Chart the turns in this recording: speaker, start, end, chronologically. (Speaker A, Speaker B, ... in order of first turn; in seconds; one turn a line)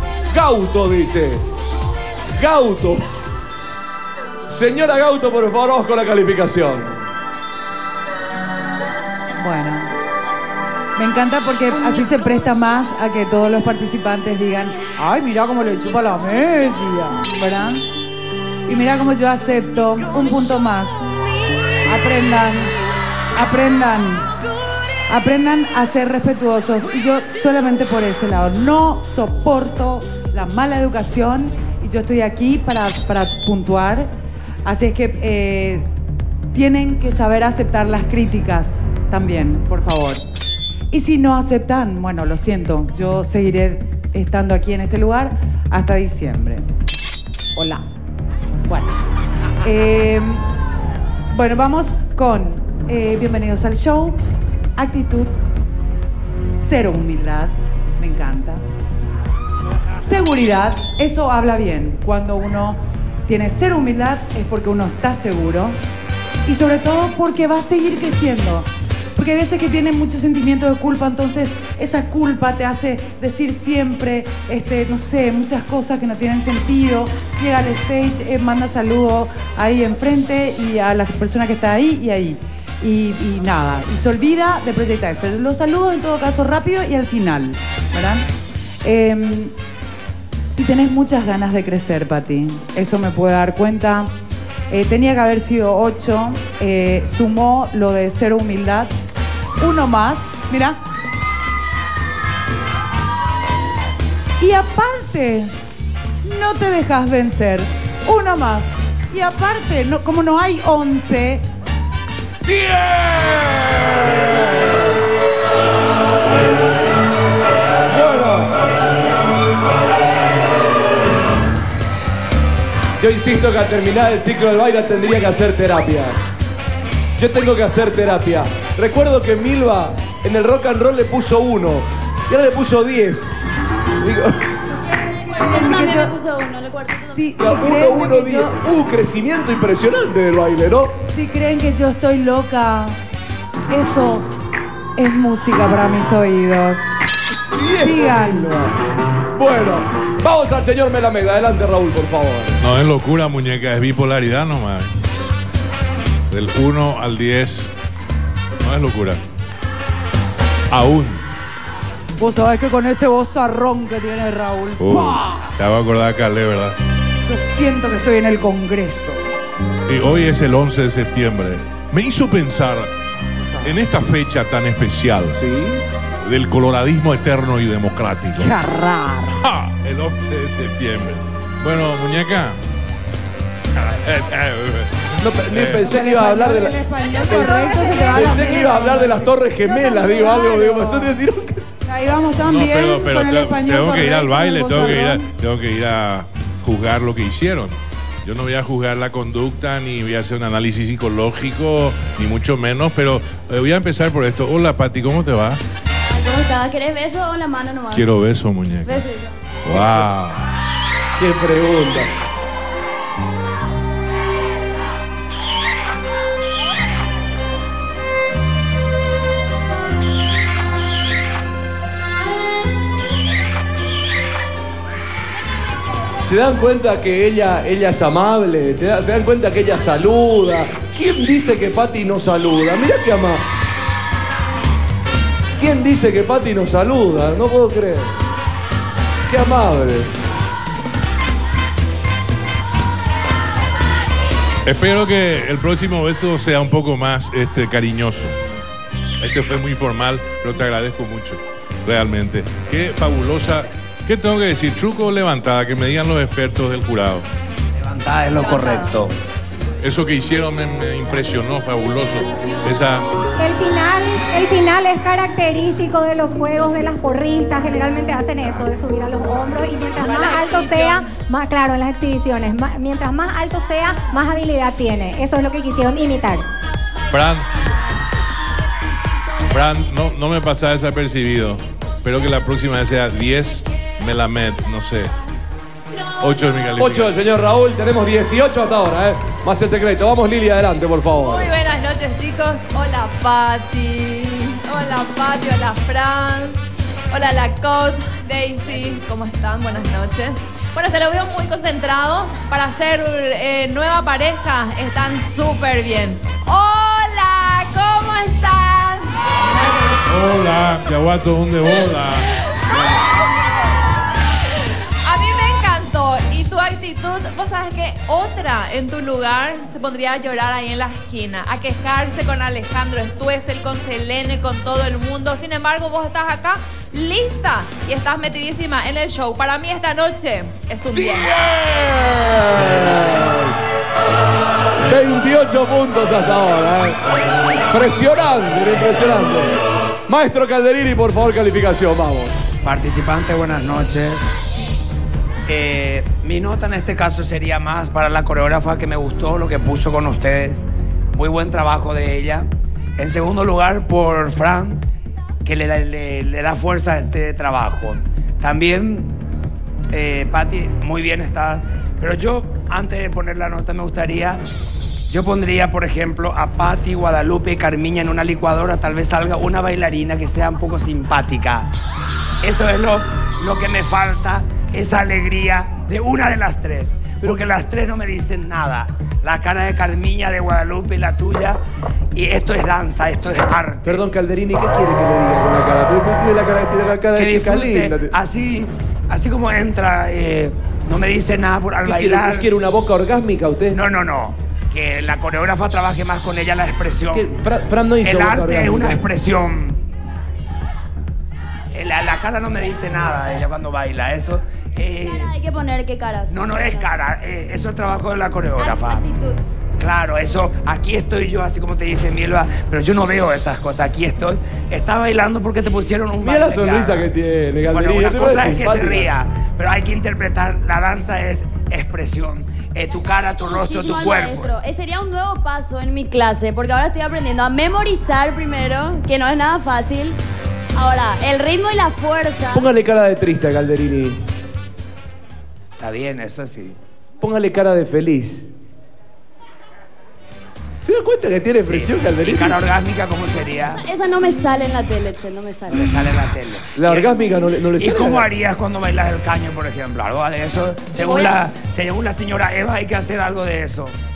Speaker A: 0.3-1.4
Speaker A: 2.4-3.0
Speaker A: 4.5-7.0
Speaker B: 9.4-9.9
Speaker B: 10.9-17.9
Speaker B: 18.7-21.0
Speaker B: 21.8-22.7
Speaker B: 23.3-24.3
Speaker B: 25.1-34.1
Speaker B: 34.6-35.9
Speaker B: 36.5-40.2
Speaker B: 40.9-46.6
Speaker B: 47.5-47.8
Speaker B: 48.7-49.0
Speaker B: 49.6-50.5
Speaker B: 51.3-54.2
Speaker B: 54.8-55.3
Speaker B: 56.6-58.6
Speaker B: 60.0-65.8
Speaker B: 66.5-88.3
Speaker B: 88.8-89.5
Speaker B: 90.6-94.1
Speaker B: 94.7-98.9
Speaker B: 99.6-100.8
Speaker B: 104.4-105.5
Speaker B: 106.2-111.5
Speaker A: 112.4-114.9
Speaker A: 117.9-118.6
Speaker A: 123.0-126.2
Speaker A: 127.2-133.4
Speaker A: 134.0-134.6
Speaker B: 135.2-136.2
Speaker C: 135.4-137.2
Speaker B: 136.8-138.6
Speaker A: 137.3-140.9
Speaker B: 140.9-143.0
Speaker B: 143.7-144.3
Speaker B: 145.0-147.0
Speaker A: 147.5-152.6
Speaker B: 147.8-148.6
Speaker D: 152.6-154.9
Speaker D: 156.3-157.7
Speaker D: 158.6-159.2
Speaker D: 160.7-161.2
Speaker B: 162.2-165.5
Speaker D: 164.8-166.8
Speaker B: 167.2-169.2
Speaker D: 169.9-172.9
Speaker D: 173.6-175.4
Speaker A: 175.3-175.8
Speaker D: 176.2-178.5
Speaker B: 178.3-179.4
Speaker D: 179.4-182.6
Speaker D: 183.8-185.9
Speaker A: 185.2-191.7
Speaker B: 185.8-189.3
Speaker E: 187.1-188.9
Speaker C: 190.1-190.4
Speaker E: 190.2-190.8
Speaker B: 191.8-195.2
Speaker D: 192.4-205.6
Speaker C: 206.1-208.1
Speaker D: 207.9-209.1
Speaker C: 208.8-210.0
Speaker D: 209.6-210.4
Speaker A: 211.2-212.1
Speaker A: 226.2-233.4
Speaker A: 235.6-238.1
Speaker A: 239.3-240.1
Speaker D: 244.6-248.3
Speaker D: 249.2-257.2
Speaker F: 257.7-259.1
Speaker C: 258.4-258.9
Speaker D: 259.8-263.0
Speaker E: 263.4-276.4
Speaker G: 270.0-271.0
Speaker D: 277.1-277.4
Speaker D: 279.5-285.1
Speaker D: 286.2-287.2
Speaker A: 286.8-291.5
Speaker G: 291.2-296.6
Speaker G: 297.1-310.0
Speaker D: 310.1-312.3
Speaker G: 315.0-331.4
Speaker A: 331.0-333.6
Speaker A: 334.8-337.0
Speaker A: 337.7-342.6
Speaker F: 342.6-344.2
Speaker F: 345.5-354.8
Speaker F: 355.4-359.1
Speaker F: 359.9-364.4
Speaker F: 365.1-371.7
Speaker F: 372.4-381.6
Speaker A: 377.2-377.5
Speaker F: 382.1-384.0
Speaker A: 383.8-388.1
Speaker F: 387.1-392.5
Speaker A: 391.8-393.9
Speaker F: 393.7-397.3
Speaker A: 397.1-399.1
Speaker F: 398.0-399.8
Speaker F: 401.7-405.3
Speaker C: 405.1-406.9
Speaker F: 406.3-409.1
Speaker C: 408.6-409.4
Speaker F: 409.8-417.1
Speaker A: 416.2-419.1
Speaker F: 417.7-424.7
Speaker C: 423.5-430.2
Speaker C: 430.8-432.7
Speaker A: 432.5-434.2
Speaker F: 435.8-436.8
Speaker A: 437.2-438.5
Speaker A: 440.8-442.6
Speaker F: 441.6-443.8
Speaker C: 443.8-446.0
Speaker F: 445.7-454.0
Speaker A: 446.8-448.3
Speaker C: 450.9-451.4